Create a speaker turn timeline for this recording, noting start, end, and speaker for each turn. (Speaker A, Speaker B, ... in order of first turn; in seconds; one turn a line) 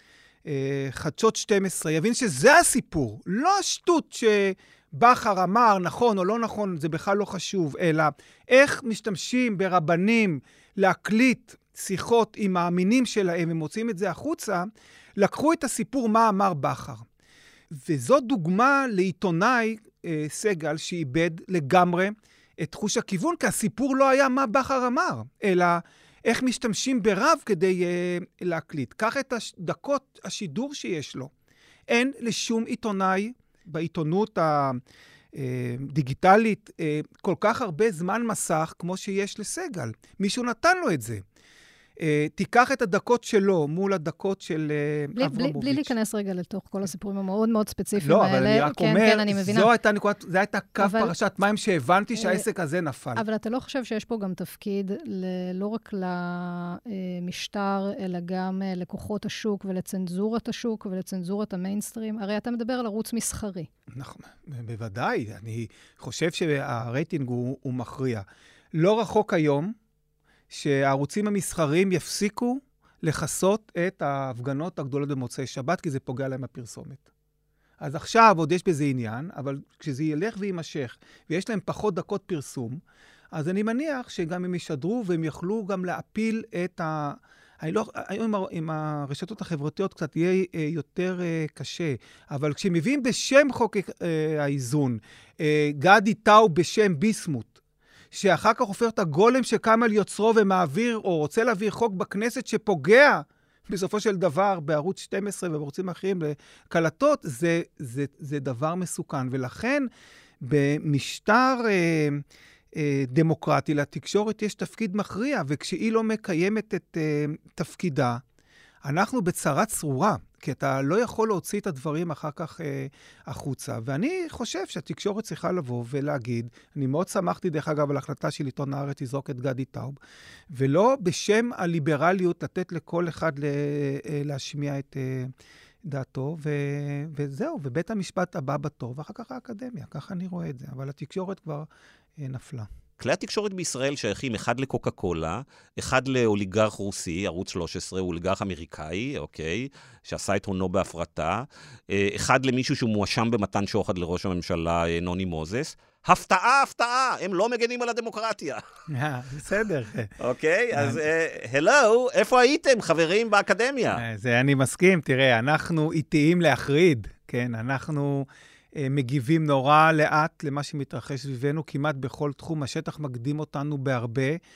Speaker A: 0.4-17.0
Speaker A: 17.7-31.3
Speaker A: 31.9-34.8
Speaker A: 35.3-41.2
Speaker A: 42.0-45.9
Speaker B: 45.2-49.7
Speaker A: 48.0-53.2
Speaker B: 50.8-51.1
Speaker B: 52.2-52.4
Speaker B: 53.1-63.7
Speaker A: 63.9-69.7
Speaker A: 70.5-77.0
Speaker A: 77.8-82.8
Speaker A: 83.3-97.5
Speaker A: 98.1-109.9
Speaker A: 110.4-112.2
Speaker A: 112.7-118.2
Speaker A: 118.8-130.0
Speaker A: 130.5-135.3
Speaker A: 135.8-142.7
Speaker C: 143.0-158.6
Speaker A: 158.9-160.1
Speaker C: 160.2-164.0
Speaker A: 160.7-161.0
Speaker A: 163.9-174.4